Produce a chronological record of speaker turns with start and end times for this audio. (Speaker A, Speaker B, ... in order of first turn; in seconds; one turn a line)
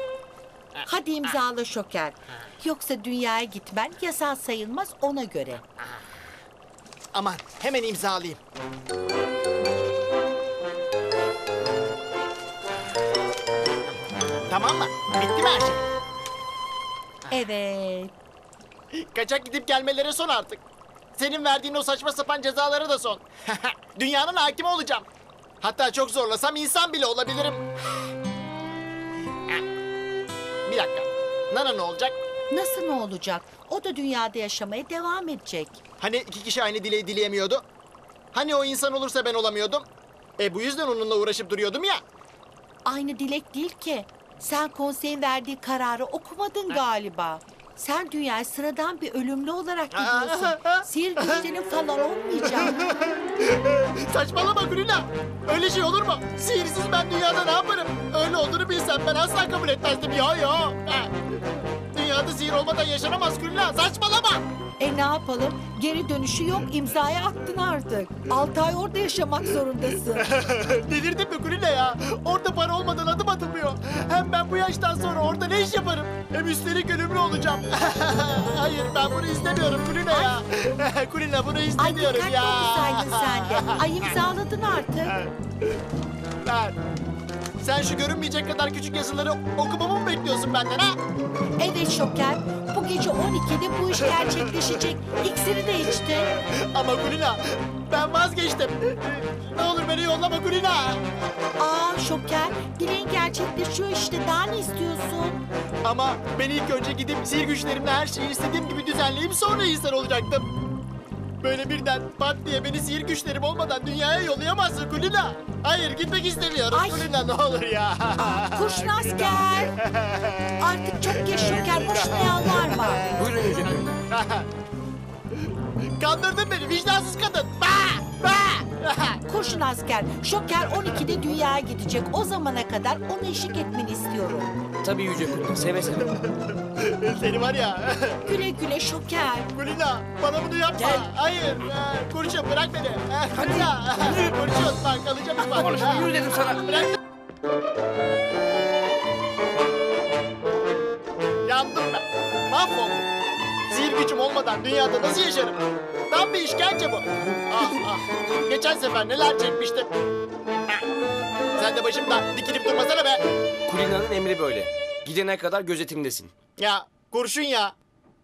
Speaker A: 0.8-5.6
Speaker B: 7.1-8.4
Speaker B: 14.5-15.8
Speaker A: 17.3-18.1
Speaker B: 18.9-20.6
Speaker B: 21.1-25.1
Speaker B: 25.6-27.6
Speaker B: 30.6-32.1
Speaker A: 32.5-35.8
Speaker B: 36.0-37.6
Speaker B: 38.3-39.9
Speaker B: 40.4-42.0
Speaker A: 42.9-52.8
Speaker B: 49.9-51.4
Speaker B: 52.5-61.2
Speaker B: 61.9-64.4
Speaker A: 64.8-70.3
Speaker B: 70.1-84.1
Speaker A: 81.8-85.2
Speaker B: 85.0-85.3
Speaker B: 86.4-86.8
Speaker B: 87.6-91.0
Speaker A: 91.6-96.3
Speaker B: 94.0-94.5
Speaker B: 96.3-101.0
Speaker A: 101.6-105.4
Speaker B: 105.8-110.5
Speaker B: 111.4-123.3
Speaker A: 116.7-117.1
Speaker A: 118.2-119.7
Speaker A: 120.6-123.1
Speaker C: 123.1-123.9
Speaker B: 124.1-124.5
Speaker B: 126.0-129.2
Speaker A: 129.2-134.5
Speaker C: 134.8-136.2
Speaker B: 136.1-138.4
Speaker A: 138.2-139.5
Speaker B: 139.5-146.9
Speaker C: 140.8-141.1
Speaker C: 143.3-144.1
Speaker C: 145.4-146.9
Speaker B: 151.4-153.1
Speaker B: 153.7-155.6
Speaker B: 156.1-159.9
Speaker B: 161.5-163.2
Speaker C: 163.7-166.3
Speaker B: 166.6-167.8